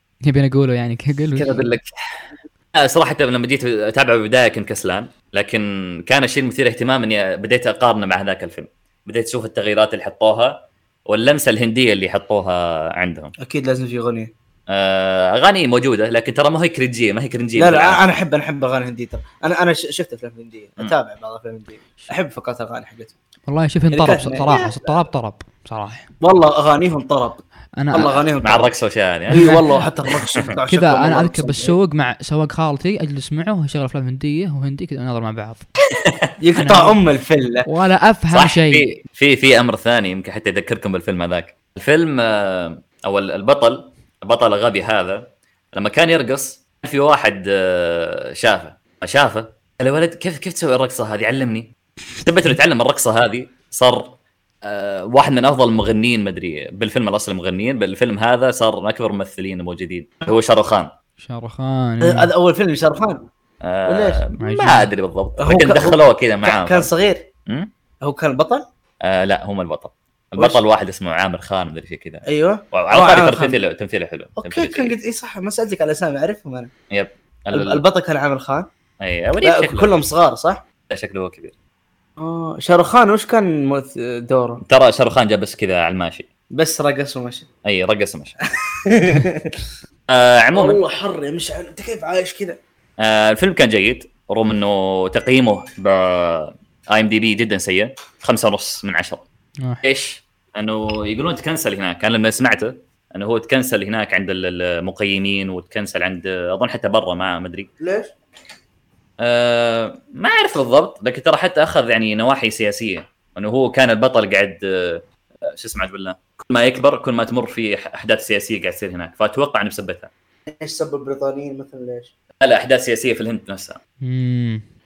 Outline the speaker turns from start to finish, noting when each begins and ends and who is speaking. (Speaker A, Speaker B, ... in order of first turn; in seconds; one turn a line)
Speaker A: 0.2-1.7
Speaker B: 1.4-13.3
Speaker C: 13.4-14.3
Speaker B: 14.7-18.0
Speaker C: 17.6-23.1
Speaker A: 23.5-26.1
Speaker C: 23.9-25.0
Speaker C: 26.2-28.7
Speaker A: 27.8-28.2
Speaker B: 28.4-29.6
Speaker C: 29.3-31.8
Speaker A: 29.3-29.8
Speaker A: 30.7-35.6
Speaker B: 35.9-36.3
Speaker C: 36.4-37.7
Speaker A: 36.6-37.0
Speaker A: 37.7-38.9
Speaker B: 38.3-60.9
Speaker A: 61.2-62.3
Speaker C: 62.0-63.3
Speaker B: 63.6-66.9
Speaker C: 63.9-64.2
Speaker A: 64.4-64.9
Speaker C: 65.4-67.3
Speaker C: 68.0-68.7
Speaker B: 69.0-74.9
Speaker C: 72.3-73.6
Speaker C: 74.4-76.7
Speaker B: 76.9-77.8
Speaker C: 77.5-78.7
Speaker B: 79.0-79.9
Speaker C: 79.4-80.6
Speaker B: 80.9-81.5
Speaker C: 82.2-84.6
Speaker B: 84.6-86.3
Speaker C: 86.5-87.5
Speaker B: 87.7-88.4
Speaker C: 88.7-89.6
Speaker B: 90.1-90.8
Speaker C: 90.5-92.6
Speaker B: 93.0-99.2
Speaker B: 99.8-107.7
Speaker C: 107.8-108.1
Speaker B: 109.2-120.1
Speaker C: 120.5-122.1
Speaker B: 122.4-123.8
Speaker A: 124.0-124.6